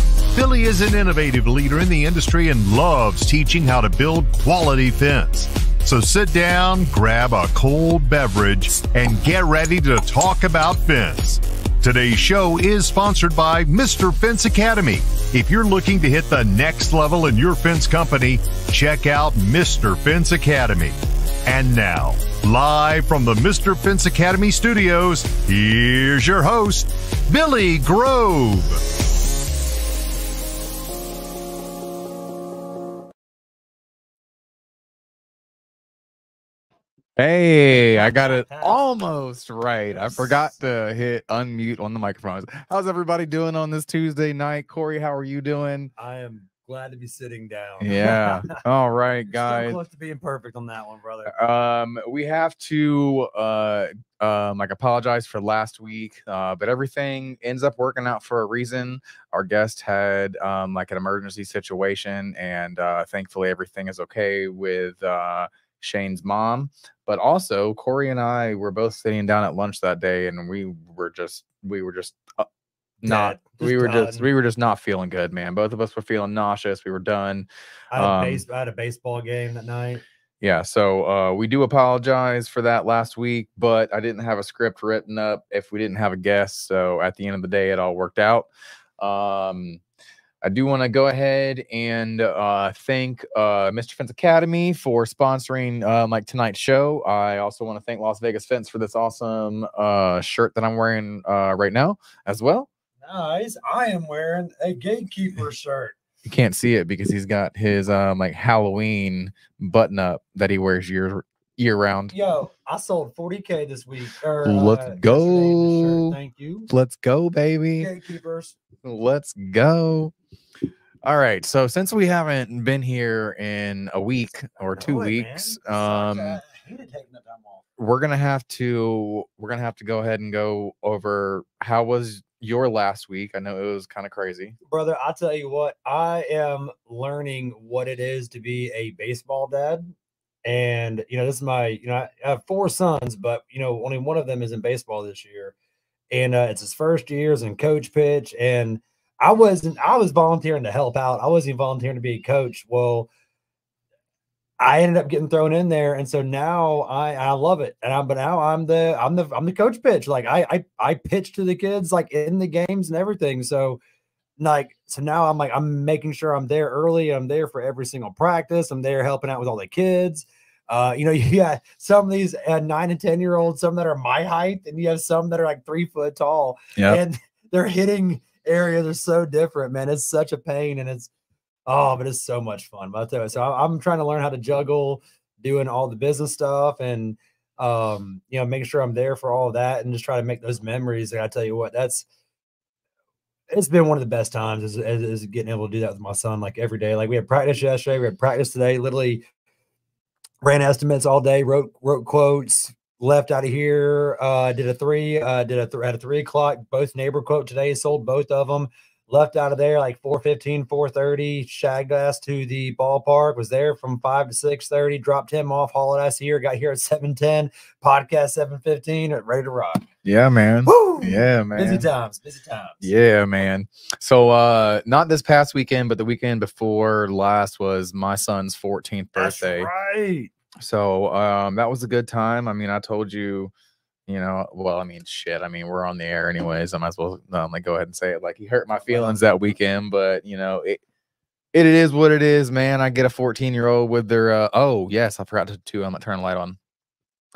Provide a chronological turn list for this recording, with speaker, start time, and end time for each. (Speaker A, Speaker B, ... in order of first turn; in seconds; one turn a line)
Speaker A: 0.3-28.8
Speaker B: 37.2-45.9
Speaker C: 38.0-38.8
Speaker C: 40.0-40.3
Speaker C: 46.0-48.6
Speaker B: 47.8-49.8
Speaker C: 49.3-51.3
Speaker B: 51.3-72.5
Speaker B: 73.0-78.4
Speaker C: 73.0-74.3
Speaker C: 77.9-80.0
Speaker B: 80.4-89.8
Speaker B: 90.4-102.7
Speaker C: 103.0-106.0
Speaker B: 106.2-112.1
Speaker C: 112.1-116.7
Speaker B: 114.4-116.2
Speaker B: 116.7-117.9
Speaker C: 117.8-118.6
Speaker B: 118.8-120.1
Speaker B: 121.0-126.4
Speaker C: 124.6-127.7
Speaker B: 127.8-134.6
Speaker C: 134.7-139.9
Speaker C: 140.4-145.6
Speaker C: 146.1-153.1
Speaker C: 154.6-163.8
Speaker C: 164.4-181.1
Speaker C: 181.7-192.1
Speaker C: 193.5-199.3
Speaker C: 200.4-219.9
Speaker B: 220.0-221.9
Speaker C: 220.7-222.9
Speaker B: 222.8-229.7
Speaker C: 229.2-230.3
Speaker B: 230.6-233.5
Speaker B: 234.1-240.8
Speaker C: 238.8-239.2
Speaker B: 241.5-246.6